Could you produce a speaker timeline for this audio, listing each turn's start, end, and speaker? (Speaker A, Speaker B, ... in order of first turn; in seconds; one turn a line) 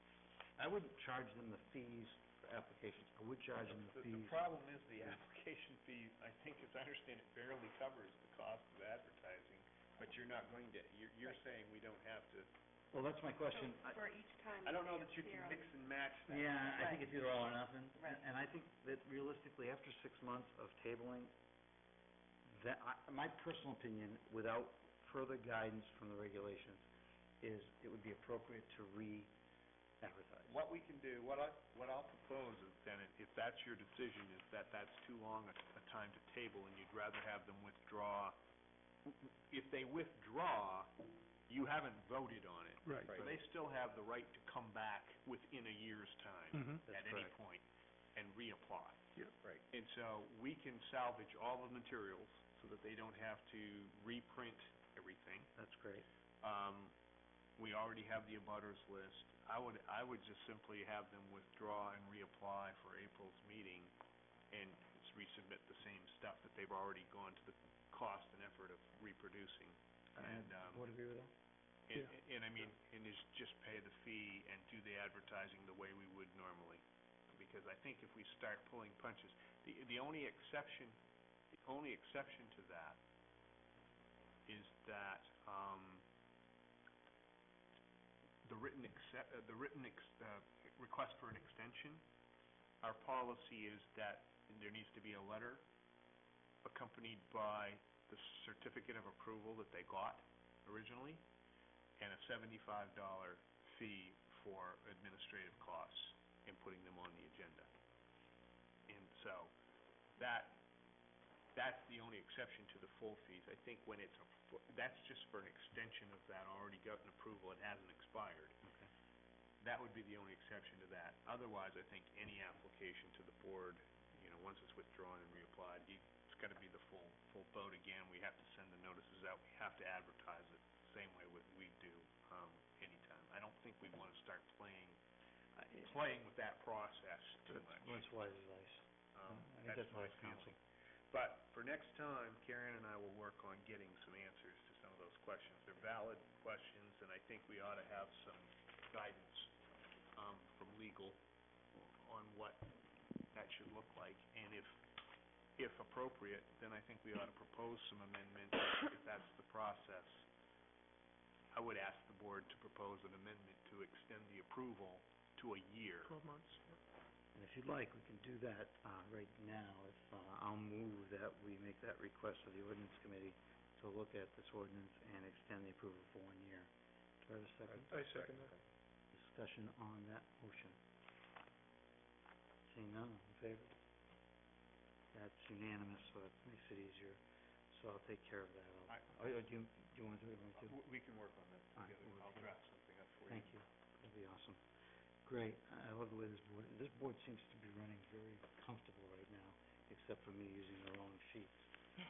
Speaker A: 0.6-4.4
Speaker B: 3.6-12.5
Speaker A: 12.9-14.0
Speaker C: 13.5-15.6
Speaker B: 14.6-17.0
Speaker A: 16.3-21.3
Speaker A: 22.5-26.9
Speaker A: 27.4-29.3
Speaker A: 30.0-30.6
Speaker B: 30.4-38.4
Speaker B: 39.1-40.9
Speaker B: 41.5-49.1
Speaker D: 42.8-43.2
Speaker D: 46.5-46.8
Speaker A: 46.9-47.3
Speaker B: 49.7-55.5
Speaker A: 55.5-56.0
Speaker B: 56.4-56.9
Speaker B: 57.6-63.9
Speaker B: 64.5-70.9
Speaker A: 70.2-71.3
Speaker B: 71.9-81.0
Speaker B: 81.5-83.0
Speaker B: 84.5-86.0
Speaker B: 88.4-92.0
Speaker B: 92.8-95.7
Speaker B: 96.6-101.2
Speaker B: 102.0-107.7
Speaker B: 108.9-109.5
Speaker B: 110.2-110.6
Speaker B: 111.5-118.6
Speaker A: 118.6-118.9
Speaker B: 119.6-135.0
Speaker B: 135.5-138.1
Speaker A: 137.5-140.5
Speaker B: 139.1-140.6
Speaker B: 141.1-149.5
Speaker B: 150.1-151.2
Speaker B: 151.7-152.7
Speaker B: 153.3-154.8
Speaker B: 155.6-160.2
Speaker B: 161.5-166.1
Speaker D: 166.0-166.8
Speaker A: 167.3-176.7
Speaker A: 177.2-177.9
Speaker B: 177.7-178.5
Speaker D: 177.9-178.5
Speaker A: 179.1-180.8
Speaker A: 182.7-183.8
Speaker A: 185.1-190.8
Speaker B: 188.9-189.1
Speaker B: 190.5-193.6
Speaker A: 191.8-192.5
Speaker A: 193.3-194.6
Speaker A: 195.2-201.7